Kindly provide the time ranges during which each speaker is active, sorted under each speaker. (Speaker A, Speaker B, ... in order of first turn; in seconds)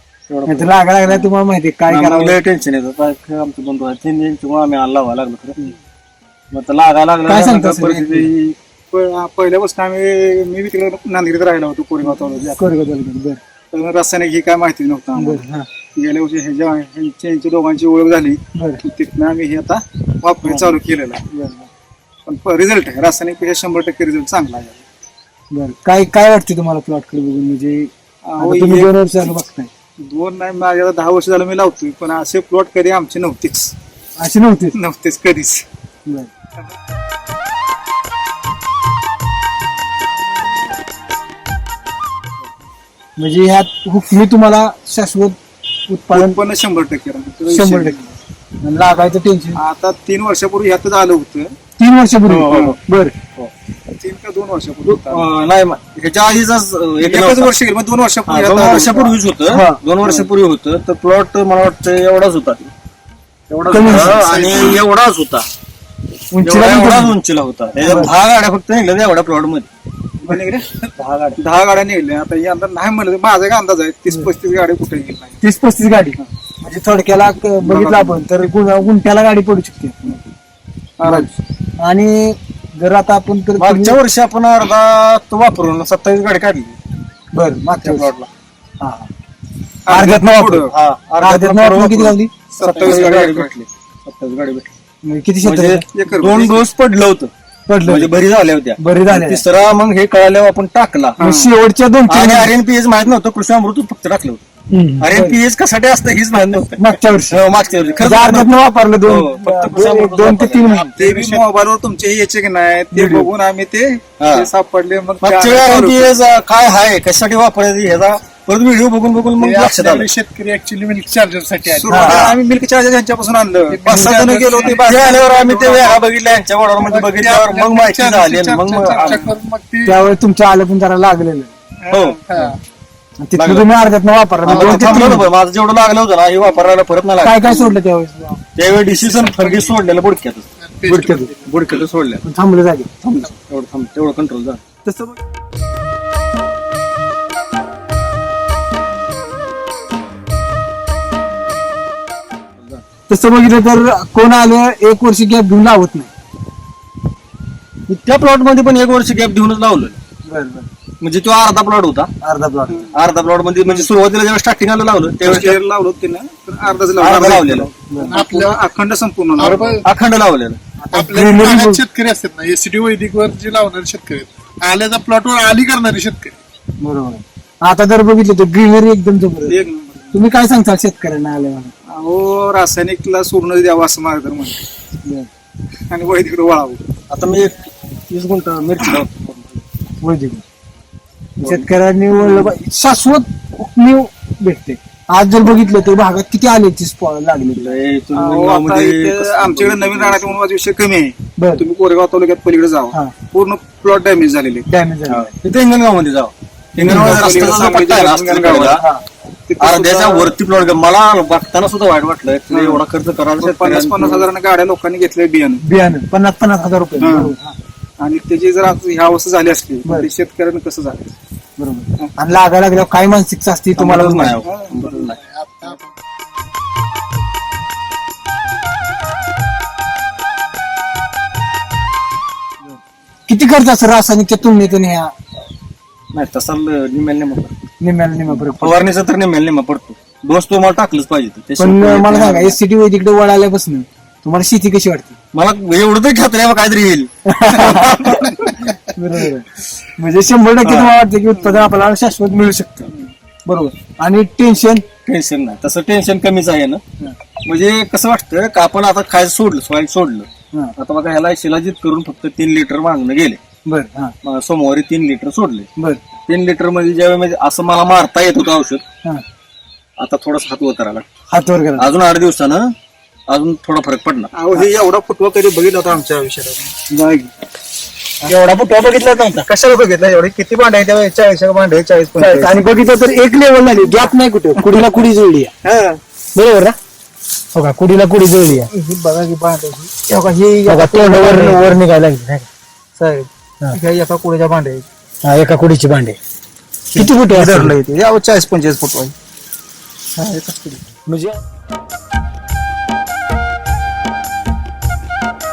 Speaker A: 0.3-1.3, 1.9-5.7, 6.5-8.2, 54.8-57.5, 58.3-62.7, 63.5-65.5, 66.4-69.7, 71.0-71.3, 77.7-78.1, 83.6-86.8, 87.8-88.3, 90.7-94.7, 95.4-97.3, 97.8-101.2, 102.1-104.4, 105.0-108.5, 109.0-111.1, 114.2-114.5, 115.2-120.1, 124.7-129.2, 131.9-132.2, 133.3-133.7, 134.4-137.7, 138.6-142.2, 143.0-144.6, 157.9-160.0, 161.0-162.1, 162.9-165.6, 167.0-167.7, 169.6-170.6, 187.1-189.6, 191.4-191.7, 197.5-200.4, 205.1-208.8, 209.6-214.3, 223.8-225.2, 236.1-237.6, 238.4-242.6, 245.3-248.6, 250.6-250.9, 255.0-256.8, 257.4-263.4, 264.2-265.7, 266.3-268.8, 270.0-271.1, 271.8-272.7, 273.3-274.7, 285.6-286.0
Speaker B: 0.5-2.4, 7.2-8.3, 12.1-13.4, 15.1-15.7, 18.5-18.8, 20.4-21.7, 25.5-29.7, 34.2-34.8, 43.2-45.4, 45.9-46.4, 47.5-48.0, 48.6-49.6, 51.8-53.1, 59.5-59.8, 63.7-64.3, 66.3-67.2, 67.8-68.1, 75.4-80.2, 81.0-84.0, 87.3-88.1, 88.8-89.1, 89.9-90.6, 91.2-93.1, 95.0-95.8, 97.7-98.1, 98.8-99.4, 101.2-102.5, 104.7-105.4, 106.8-107.4, 108.0-110.9, 112.9-113.3, 121.9-122.3, 123.8-124.2, 129.8-131.5, 133.2-135.3, 137.2-138.4, 140.9-141.3, 142.2-142.9, 144.8-145.2, 153.1-156.1, 160.3-160.7, 162.2-162.9, 167.9-168.2, 170.8-171.8, 176.8-179.6, 180.1-181.7, 190.0-190.4, 191.4-197.8, 201.4-201.6, 204.7-205.3, 206.8-207.5, 208.7-209.0, 215.6-217.6, 221.6-224.4, 233.3-235.1, 237.8-238.9, 241.6-245.2, 247.2-248.0, 248.9-252.9, 253.4-254.8, 263.7-264.1, 271.3-271.9, 276.9-277.3, 278.2-279.5, 282.2-285.5, 286.3-286.8, 287.5-288.7, 290.7-292.5, 295.2-296.2, 296.9-297.7, 301.1-301.4
Speaker C: 7.8-12.6, 13.7-15.4, 15.9-21.2, 22.2-24.8, 28.3-28.9, 30.0-33.7, 34.7-35.6, 46.1-48.1, 49.5-51.5, 52.2-52.8, 54.0-55.2, 57.0-59.1, 63.8-64.7, 70.2-75.4, 81.0-81.3, 89.9-90.7, 92.5-93.5, 95.9-96.7, 101.2-101.5, 111.0-116.1, 121.7-125.1, 128.7-129.3, 131.8-132.2, 134.5-135.0, 165.2-169.8, 179.4-180.2, 181.9-184.6, 185.9-186.8, 198.1-204.7, 206.8-208.8, 209.5-210.3, 212.5-212.8, 213.4-215.6, 217.0-217.3, 218.0-221.1, 224.2-224.8, 248.2-248.5, 251.3-251.7, 274.3-276.7, 279.4-282.5, 288.5-291.7, 293.0-294.9, 296.9-299.1, 300.3-300.6
Speaker D: 111.1-111.4, 119.4-122.4, 123.7-126.1, 126.8-129.9, 132.3-132.6, 138.9-139.8, 140.6-141.8, 168.1-168.5, 169.3-169.8, 170.9-176.3, 225.2-225.8